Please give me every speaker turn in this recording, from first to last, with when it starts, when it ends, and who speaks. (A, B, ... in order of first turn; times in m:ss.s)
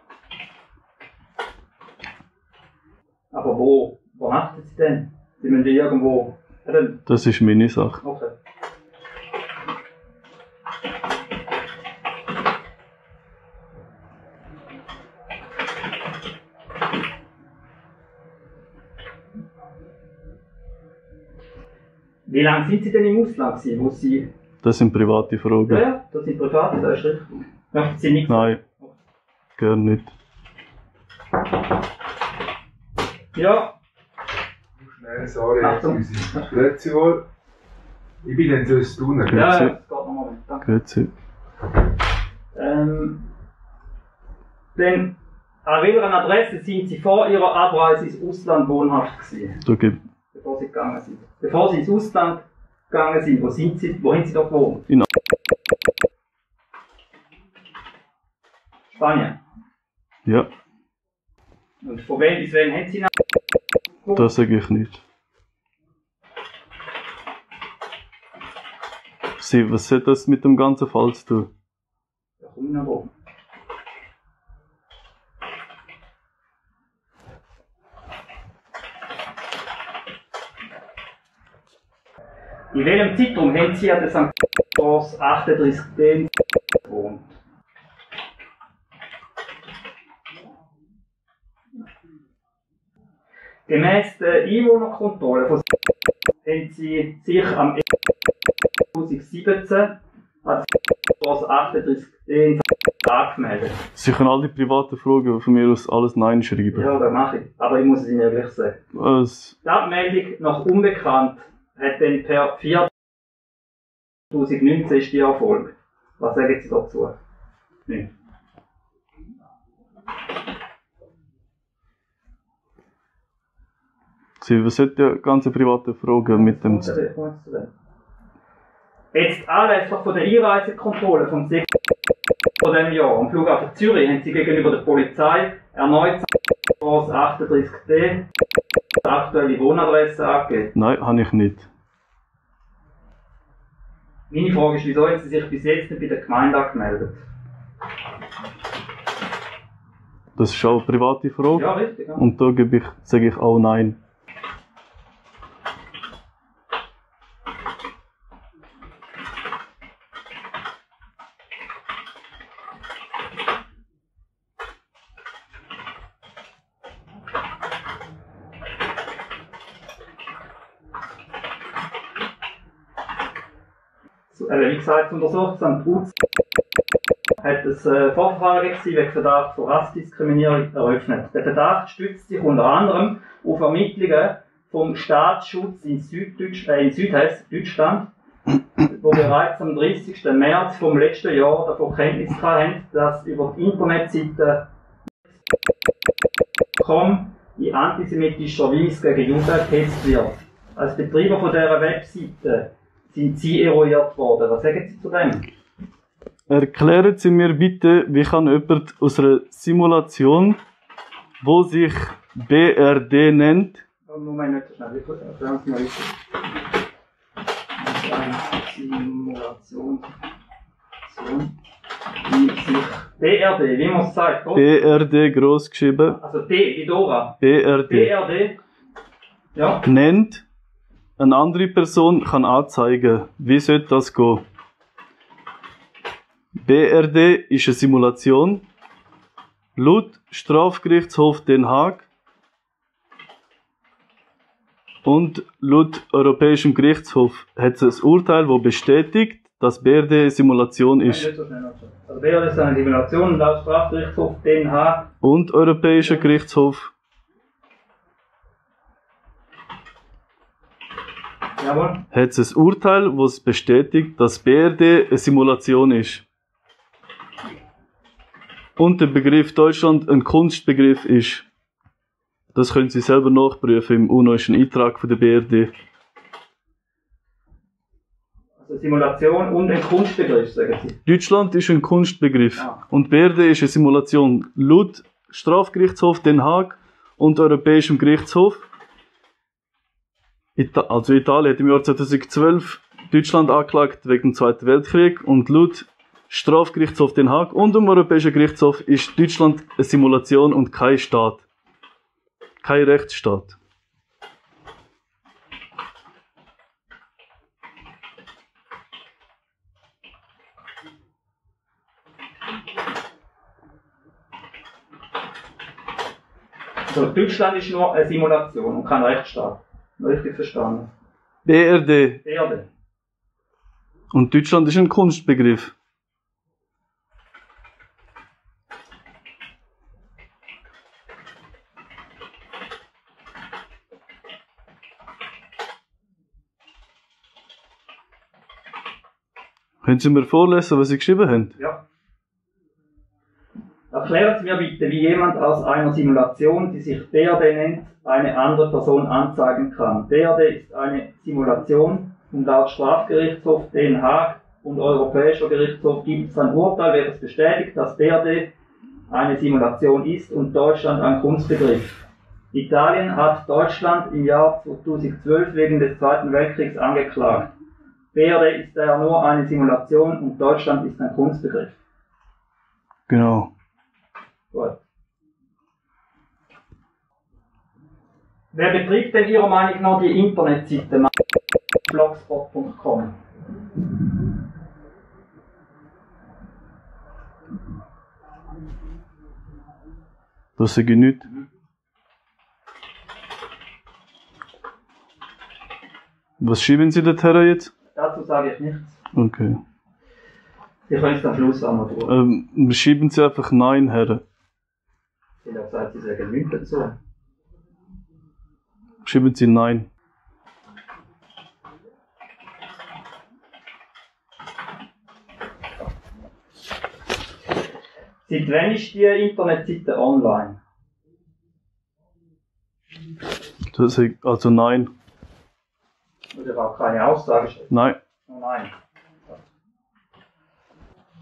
0:03.3-0:07.0 A
0:07.1-0:08.0 B
0:08.0-0:08.3 A
0:22.3-0:24.3 A
0:24.6-0:25.8 B
0:25.7-0:28.9 A
0:28.3-0:28.6 B
0:29.6-0:30.1 B
0:33.4-0:33.8 A
0:34.9-0:37.2 C
0:35.6-0:36.5 A
0:38.2-0:39.5 C
0:39.3-0:40.7 A
0:39.3-0:39.7 B
0:40.6-0:41.1 B
0:42.5-0:43.3 A
0:44.8-0:49.6 A
0:49.6-0:50.0 B
0:50.3-0:54.9 A
0:58.9-0:59.4 A
1:01.8-1:03.1 A
1:04.2-1:05.0 B
1:09.4-1:11.5 B
1:12.4-1:13.1 A
1:22.7-1:27.4 A
1:33.7-1:35.6 A
1:36.4-1:37.8 A
1:38.9-1:40.7 A
1:41.2-1:43.8 A
1:44.0-1:46.9 B
1:46.7-1:48.8 A
1:48.9-1:49.6 B
1:49.6-1:52.9 A
1:54.3-1:57.2 A
2:04.4-2:07.0 B
2:06.2-2:07.7 A
2:09.1-2:11.7 A
2:12.6-2:16.3 A
2:16.8-2:18.3 A
2:19.0-2:20.7 A
2:20.8-2:21.7 B
2:24.3-2:27.2 A
2:30.4-2:34.0 B
2:31.5-2:32.2 A
2:54.3-2:56.1 A
2:57.4-3:08.1 A
3:08.8-3:14.7 A
3:16.8-3:25.5 A
3:26.5-3:30.6 B
3:31.4-3:33.8 B
3:34.1-3:36.2 A
3:37.8-3:40.1 A
3:41.1-3:41.6 A
3:42.2-3:44.8 A
3:44.6-3:46.2 B
3:46.2-3:48.6 A
3:47.4-3:48.1 B
3:49.6-3:49.9 A
3:49.8-3:50.4 B
3:51.2-3:54.4 B
3:56.6-3:58.7 B
3:59.8-4:02.1 B
4:05.0-4:11.3 B
4:11.0-4:15.1 A
4:15.2-4:16.9 B
4:16.0-4:16.3 A
4:21.6-4:22.0 A
4:22.1-4:26.2 B
4:28.8-4:31.5 B
4:32.5-4:35.7 B
4:38.6-4:41.0 A
4:41.1-4:48.7 B
4:50.6-5:01.5 B
5:02.6-5:03.6 B
5:16.9-5:20.9 A
5:21.4-5:22.2 B
5:22.2-5:22.7 A
5:24.1-5:25.7 B
5:39.8-5:41.6 B
5:41.6-5:41.8 A
5:43.9-5:58.5 A
5:59.1-6:07.5 A
6:08.1-6:11.8 A
6:13.1-6:13.5 B
6:14.5-6:14.8 A
6:18.5-6:21.1 A
6:21.9-6:23.2 A
6:30.6-6:31.3 B
6:36.4-6:37.7 B
6:38.0-6:39.0 A
6:39.1-6:39.6 B
6:40.9-6:42.1 A
6:42.1-6:44.2 B
6:45.4-6:47.0 A
6:49.0-6:49.9 B
6:58.3-7:00.6 A
7:03.7-7:04.9 B
7:06.3-7:07.7 A
7:07.7-7:08.0 B
7:08.3-7:08.7 A